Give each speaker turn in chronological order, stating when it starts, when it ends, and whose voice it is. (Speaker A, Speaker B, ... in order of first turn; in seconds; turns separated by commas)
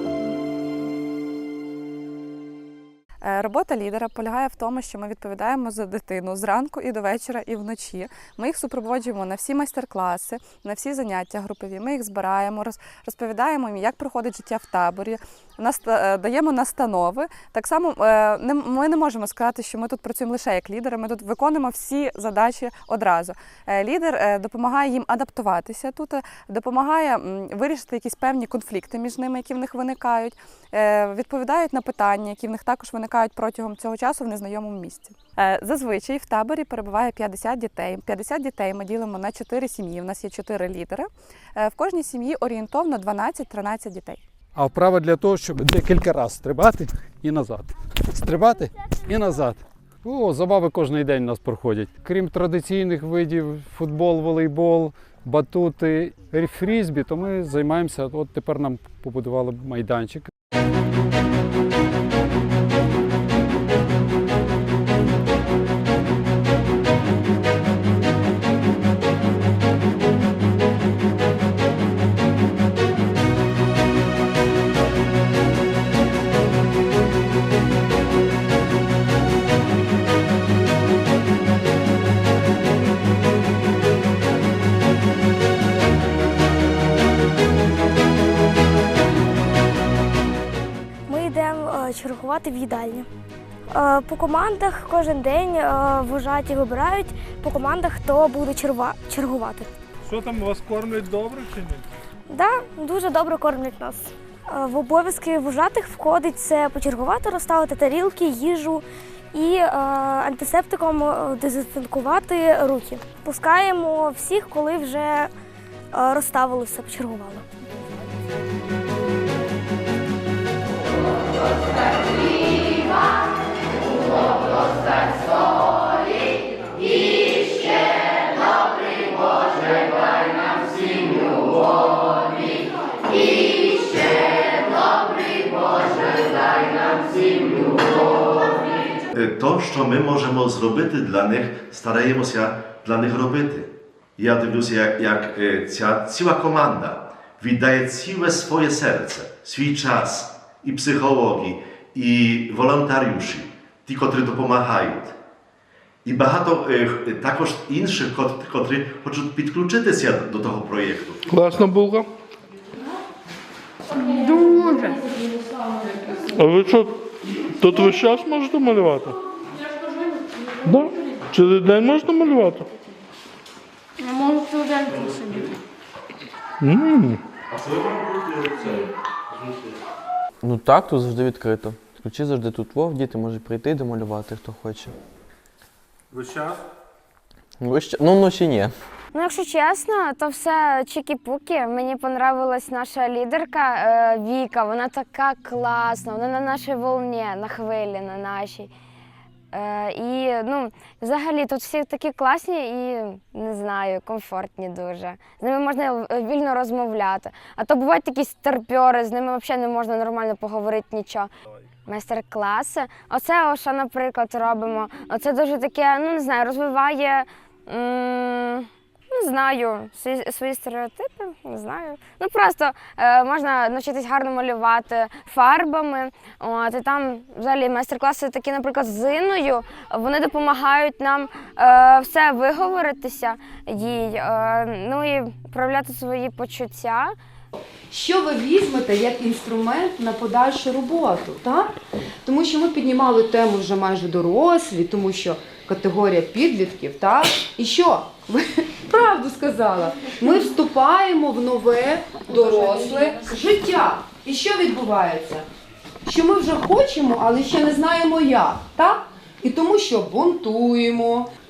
Speaker A: 3.2-44.2, Speaker B: 44.5-60.3, Speaker C: 91.1-93.1, Speaker C: 93.8-99.7, Speaker D: 100.0-101.8, Speaker C: 102.3-108.8, Speaker C: 109.3-115.3, Speaker C: 116.0-117.4, Speaker E: 139.1-155.1, Speaker E: 156.0-161.2, Speaker D: 161.3-162.0, Speaker D: 166.3-166.9, Speaker D: 167.6-169.2, Speaker D: 170.7-172.7, Speaker D: 176.6-178.7, Speaker D: 179.3-179.7, Speaker F: 180.4-184.9, Speaker D: 186.1-186.6, Speaker F: 187.6-188.7, Speaker G: 189.1-198.7, Speaker G: 199.5-211.3, Speaker G: 211.8-237.2, Speaker H: 237.9-241.7, Speaker H: 242.2-255.4, Speaker H: 256.0-261.3